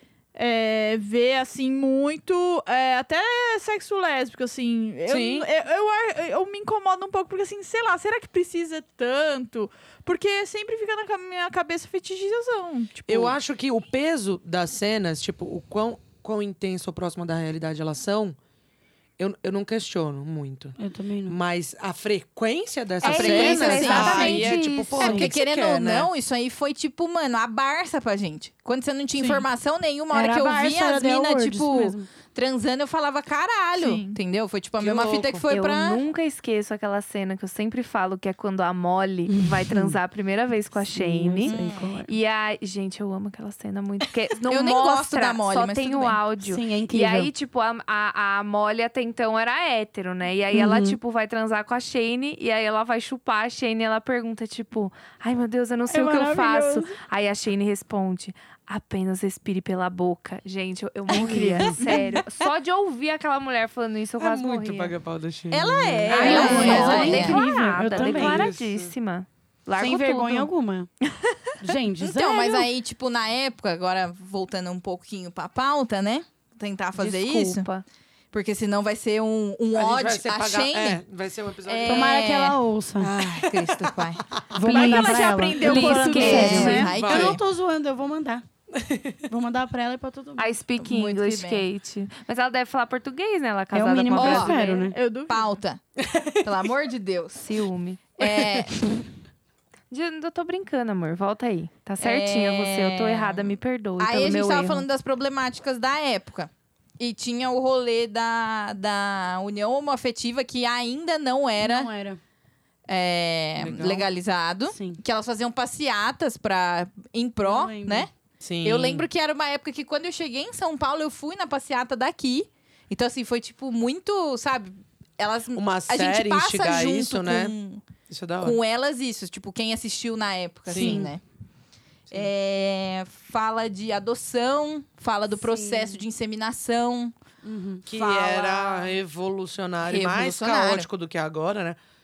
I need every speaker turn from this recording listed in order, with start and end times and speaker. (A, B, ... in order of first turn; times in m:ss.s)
0:00.4-0:13.4 A
0:05.1-0:05.5 B
0:13.1-0:18.4 B
0:19.2-0:20.8 B
0:20.8-0:21.4 C
0:21.3-0:26.1 B
0:23.0-0:25.2 D
0:23.0-0:36.0 E
0:23.4-0:25.3 C
0:29.2-0:29.4 C
0:30.1-0:32.1 C
0:33.8-0:34.2 A
0:34.8-0:35.5 B
0:35.5-1:04.9 D
0:39.3-0:40.0 C
0:40.9-0:42.1 C
0:41.4-0:41.8 E
0:44.5-0:46.2 E
0:46.4-0:47.3 C
0:50.5-0:51.0 C
0:55.9-0:57.0 C
1:01.1-1:02.0 C
1:01.3-1:02.2 E
1:04.2-1:08.9 B
1:05.5-1:07.4 E
1:06.1-1:10.5 D
1:06.1-1:08.5 C
1:09.8-1:10.9 C
1:11.6-1:12.7 C
1:12.0-1:17.7 E
1:17.0-1:17.8 D
1:18.3-1:21.0 E
1:19.8-1:22.2 B
1:21.6-1:22.6 E
1:21.8-1:23.1 C
1:23.0-1:24.9 B
1:23.2-1:24.2 E
1:24.5-1:28.4 C
1:24.6-1:26.9 A
1:24.7-1:26.9 D
1:26.1-1:27.4 E
1:26.4-1:27.4 B
1:28.7-1:29.2 B
1:29.3-1:30.6 C
1:30.4-1:34.8 D
1:30.8-1:31.7 E
1:33.7-1:35.0 C
1:34.1-1:34.5 E
1:34.2-1:35.5 A
1:35.3-1:35.8 E
1:36.0-1:36.7 B
1:36.4-1:37.5 E
1:37.4-1:38.0 D
1:38.2-1:38.8 E
1:38.2-1:38.8 B
1:39.9-1:44.9 D
1:42.0-1:51.9 E
1:51.6-1:52.2 C
1:52.9-1:58.1 E
1:53.6-1:54.1 B
1:54.7-1:55.0 C
1:57.4-1:58.1 C
1:58.4-1:59.1 B
1:58.6-2:07.8 E
2:05.6-2:07.5 B
2:08.1-2:08.6 B
2:08.4-2:11.2 E
2:10.7-2:11.1 B
2:10.7-2:11.1 C
2:12.1-2:17.1 E
2:15.4-2:16.0 C
2:17.4-2:18.9 C
2:17.9-2:21.8 B
2:19.8-2:20.9 E